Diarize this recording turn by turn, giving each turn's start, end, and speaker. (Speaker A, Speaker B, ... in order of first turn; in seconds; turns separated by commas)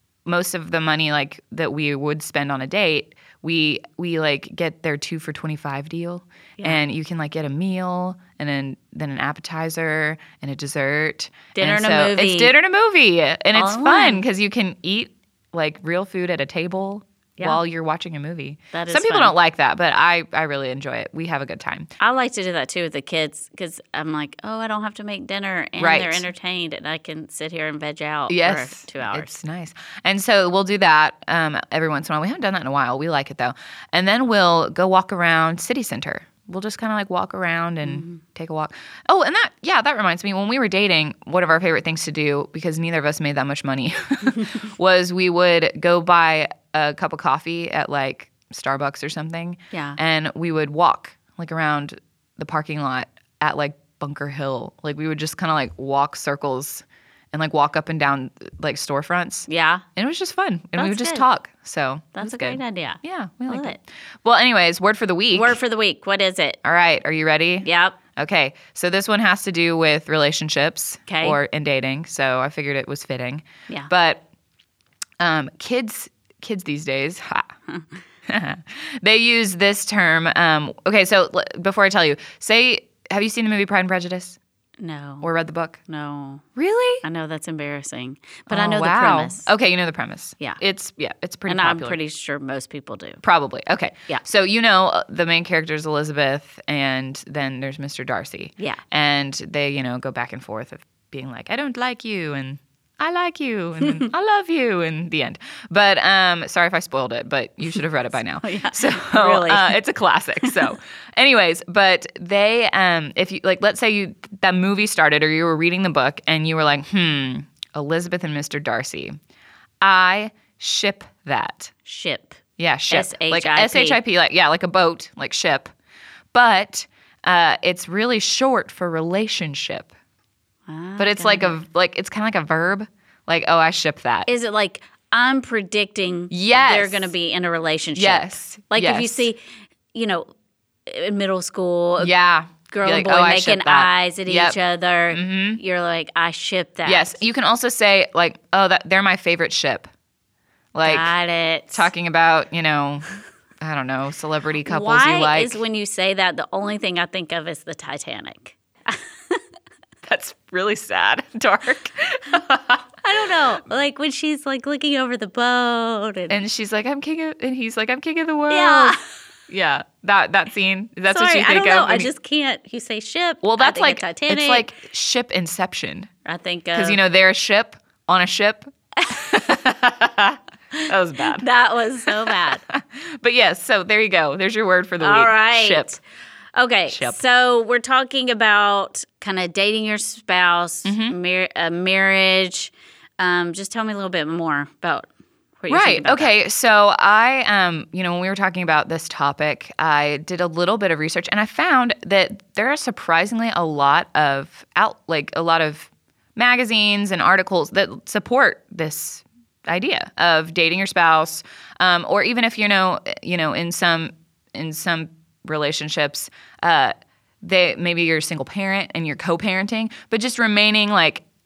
Speaker A: 0.2-21.9, Speaker B: 11.5-12.5, Speaker B: 13.6-14.2, Speaker B: 18.7-19.4, Speaker B: 22.0-29.3, Speaker A: 25.8-26.3, Speaker A: 28.3-65.6, Speaker B: 37.9-38.2, Speaker B: 49.7-50.0, Speaker B: 59.5-59.9, Speaker B: 60.8-61.2, Speaker B: 62.2-63.8, Speaker B: 65.3-66.6, Speaker A: 66.6-74.2, Speaker B: 67.6-68.0, Speaker B: 71.1-71.4, Speaker A: 75.2-77.5, Speaker A: 78.3-84.4, Speaker B: 84.8-85.3, Speaker A: 85.2-85.8, Speaker B: 85.9-86.4, Speaker A: 86.6-87.0, Speaker B: 87.0-89.5, Speaker A: 88.5-92.0, Speaker B: 91.5-93.2, Speaker A: 93.2-119.2, Speaker B: 108.4-109.8, Speaker B: 110.4-110.7, Speaker A: 119.8-121.7, Speaker B: 121.8-124.0, Speaker A: 122.6-125.7, Speaker A: 126.3-129.9, Speaker B: 130.7-131.6, Speaker A: 131.0-134.3, Speaker B: 134.3-139.4, Speaker A: 136.3-137.1, Speaker A: 138.0-139.3, Speaker B: 139.9-140.3, Speaker B: 140.9-142.1, Speaker A: 142.0-144.6, Speaker B: 142.7-147.2, Speaker A: 145.1-145.6, Speaker A: 146.9-149.9, Speaker A: 150.8-151.1, Speaker B: 150.8-151.9, Speaker A: 151.7-153.1, Speaker A: 153.6-155.6, Speaker B: 154.7-159.4, Speaker A: 160.0-162.9, Speaker B: 163.0-166.4, Speaker A: 166.3-169.0, Speaker B: 168.5-169.0, Speaker A: 169.5-172.1, Speaker B: 171.1-174.7, Speaker A: 173.4-176.1, Speaker B: 176.2-177.0, Speaker A: 176.8-181.5, Speaker B: 180.8-182.6, Speaker A: 182.1-186.0, Speaker B: 185.0-186.0, Speaker B: 186.6-195.1, Speaker A: 186.9-187.2, Speaker A: 190.9-191.2, Speaker B: 195.6-196.3, Speaker A: 195.7-221.2